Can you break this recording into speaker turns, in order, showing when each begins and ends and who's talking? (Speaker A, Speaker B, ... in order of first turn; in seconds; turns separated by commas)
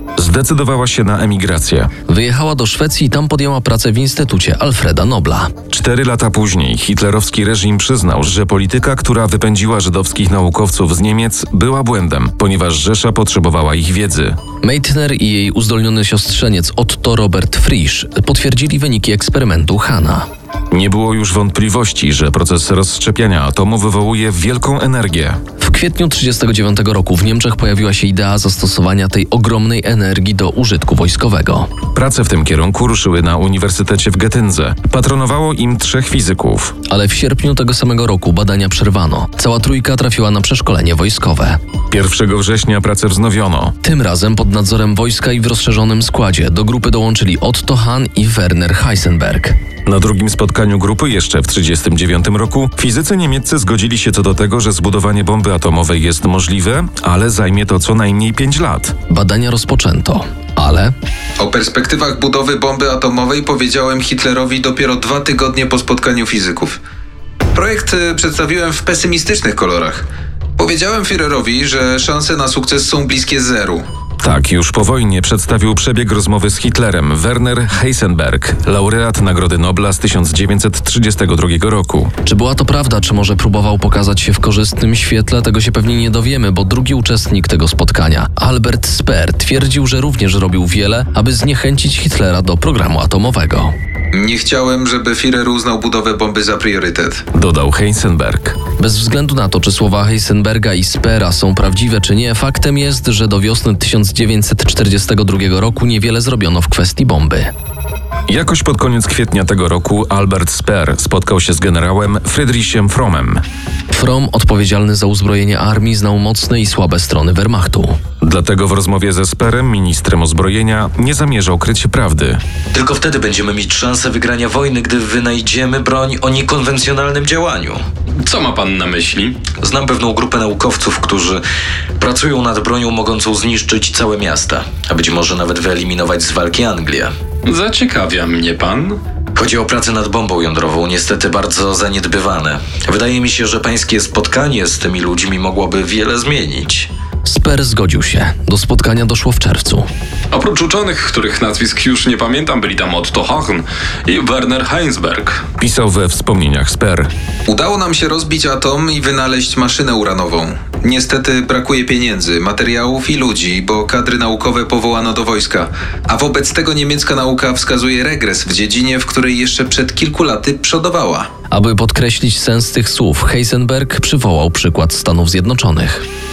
Speaker A: 0.2-1.9, Speaker B: 2.1-5.5, Speaker A: 5.7-14.4, Speaker B: 14.6-20.3, Speaker A: 20.7-25.4, Speaker B: 25.6-31.7, Speaker A: 31.9-36.7, Speaker B: 36.9-41.6, Speaker A: 41.9-43.8, Speaker B: 43.8-49.6, Speaker A: 49.9-59.0, Speaker B: 59.1-60.9, Speaker C: 61.4-66.8, Speaker C: 67.5-70.1, Speaker C: 70.6-73.8, Speaker A: 74.2-82.1, Speaker B: 82.2-93.7, Speaker C: 94.1-97.2, Speaker A: 97.3-98.6, Speaker B: 98.8-107.5, Speaker A: 108.3-113.4, Speaker B: 113.9-118.0, Speaker A: 118.2-122.4, Speaker D: 122.7-127.8, Speaker E: 128.2-129.5, Speaker D: 129.6-131.4, Speaker D: 132.0-137.1, Speaker E: 137.4-139.0, Speaker D: 139.3-146.9, Speaker B: 147.2-149.9, Speaker E: 150.3-155.4, Speaker A: 155.6-157.1, Speaker C: 157.5-171.3, Speaker B: 171.5-176.1